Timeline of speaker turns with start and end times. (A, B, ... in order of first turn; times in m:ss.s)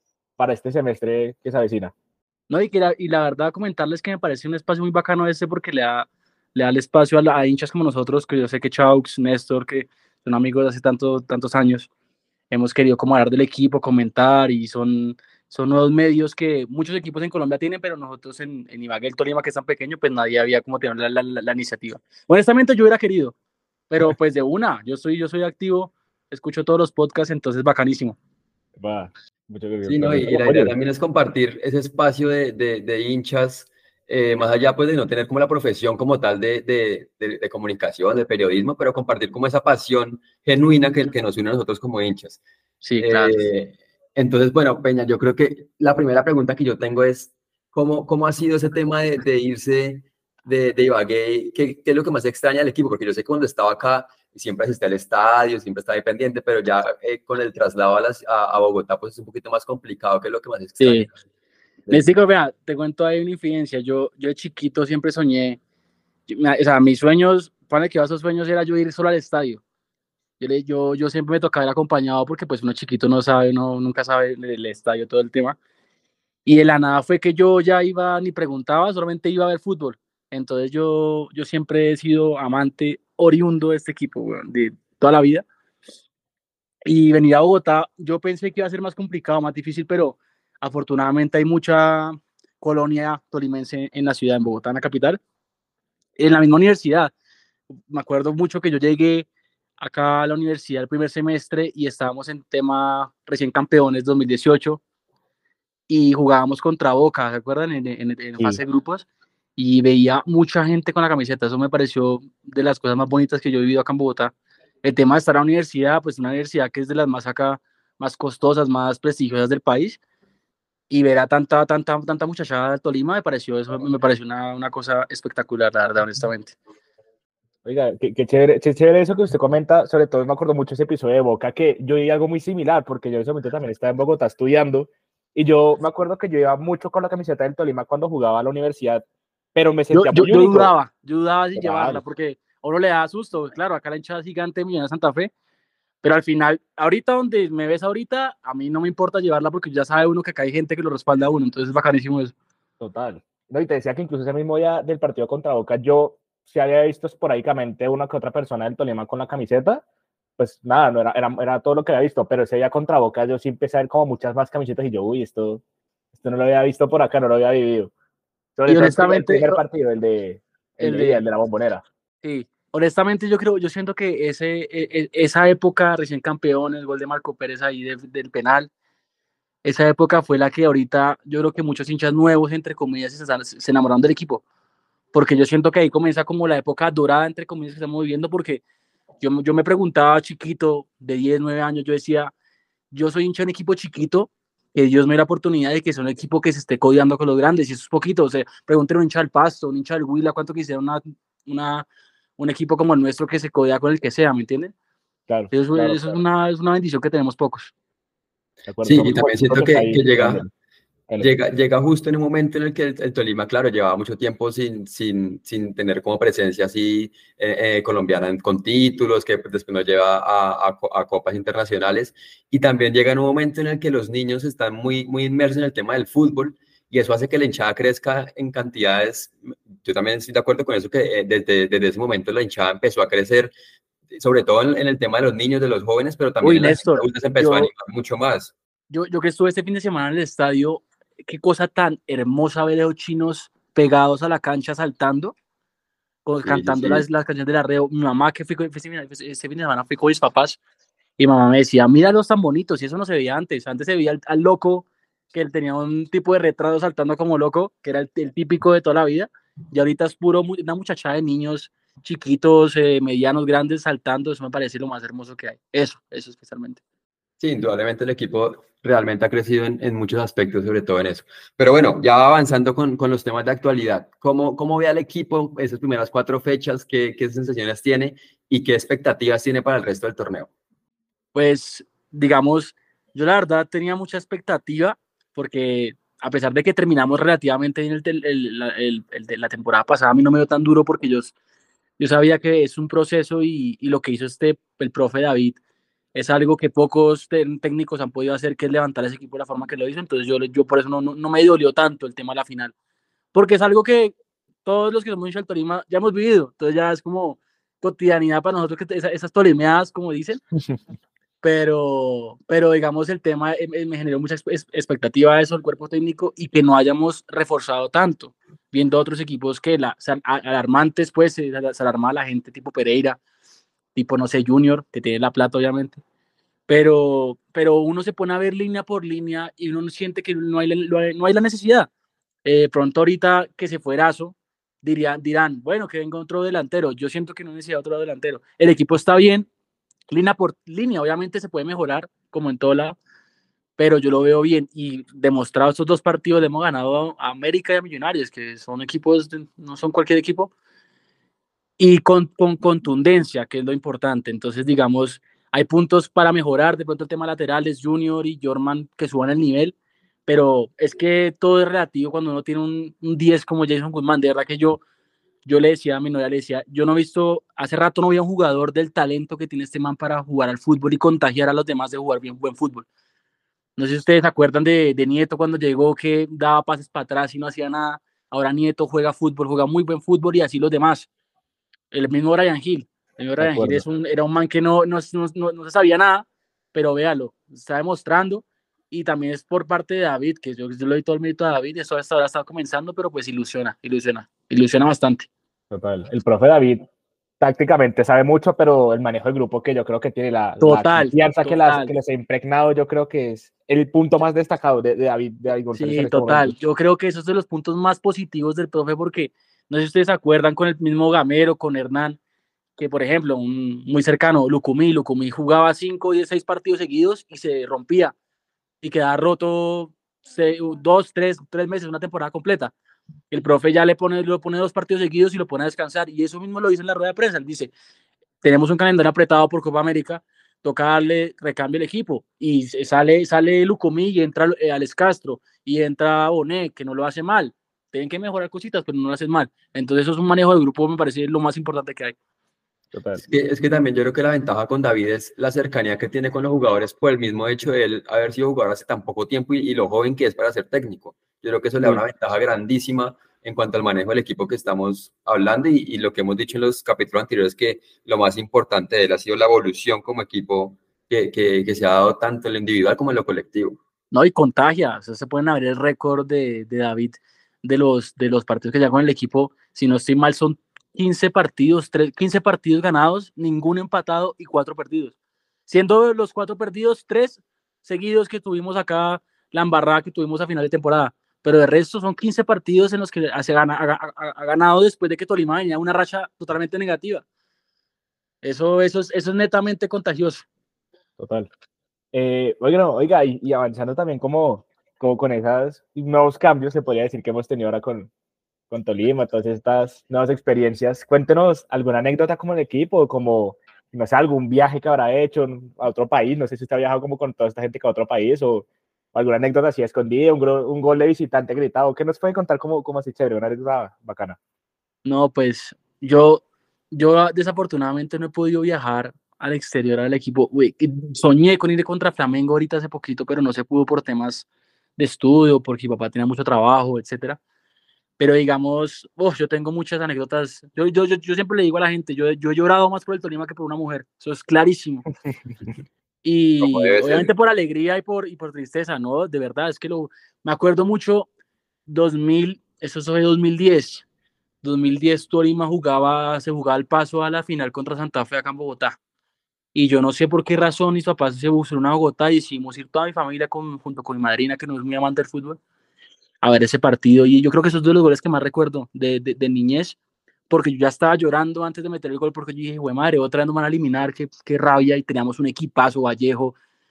0:00.4-0:01.9 A
0:02.5-0:11.9 B
0:12.5-0:23.3 B
0:23.9-0:28.2 B
0:28.8-0:30.7 A
0:29.8-0:42.4 C
0:42.8-0:43.4 B
0:43.0-1:01.2 C
1:00.8-1:01.1 B
1:01.9-1:05.6 B
1:06.3-1:09.6 B
1:10.4-1:15.6 B
1:16.4-1:25.4 B
1:26.8-1:35.2 B
1:36.2-1:37.1 B
1:37.9-1:39.3 B
1:39.8-1:44.8 B
1:45.9-2:00.0 B
2:00.9-2:06.6 B
2:07.6-2:19.0 A
2:19.5-2:20.7 A
2:19.9-2:25.3 B
2:21.5-2:22.0 A
2:26.0-2:32.3 B
2:32.8-2:39.8 A
2:40.4-2:45.6 A
2:46.1-2:47.9 A
2:48.6-2:51.8 A
2:48.7-2:49.6 B
2:50.8-2:51.2 B
2:52.2-2:58.7 B
2:59.6-3:04.4 B
3:05.1-3:08.6 B
3:09.2-3:12.3 B
3:12.9-3:21.9 B
3:22.4-3:24.7 B
3:25.3-3:26.2 A
3:25.5-3:27.7 B
3:28.6-3:30.5 A
3:28.8-3:30.4 C
3:31.2-3:53.5 C
3:54.1-3:58.5 C
3:56.4-3:57.7 B
3:58.9-4:05.3 B
4:06.2-4:10.6 B
4:06.4-4:07.0 C
4:11.2-4:26.8 B
4:27.4-4:40.5 C
4:41.3-4:51.3 B
4:52.0-4:55.6 B
4:56.1-5:02.7 B
5:03.3-5:10.4 B
5:11.4-5:23.2 B
5:23.9-5:26.0 B
5:26.7-5:31.9 B
5:32.4-5:39.5 B
5:40.1-5:43.0 B
5:43.8-5:50.5 B
5:51.8-5:59.8 B
6:00.2-6:04.8 B
6:05.4-6:12.9 B
6:13.8-6:21.1 B
6:21.9-6:35.3 B
6:23.4-6:23.8 A
6:35.7-6:36.9 A
6:37.4-6:46.5 A
6:40.6-6:41.9 B
6:45.7-6:52.2 B
6:52.8-6:58.1 B
6:58.8-7:02.7 B
7:03.3-7:07.7 B
7:08.4-7:22.2 B
7:22.9-7:23.2 A
7:23.2-7:43.8 C
7:44.1-7:55.1 B
7:55.7-8:07.2 B
8:08.4-8:10.4 B
8:11.2-8:11.5 A
8:12.1-8:18.1 A
8:18.7-8:34.4 A
8:35.0-8:44.5 B
8:45.0-8:47.4 B
8:48.2-8:55.0 B
8:56.2-9:01.3 B
8:56.6-8:57.3 C
9:01.9-9:04.0 B
9:04.6-9:09.0 B
9:09.7-9:15.6 B
9:16.4-9:20.0 B
9:20.5-9:26.6 B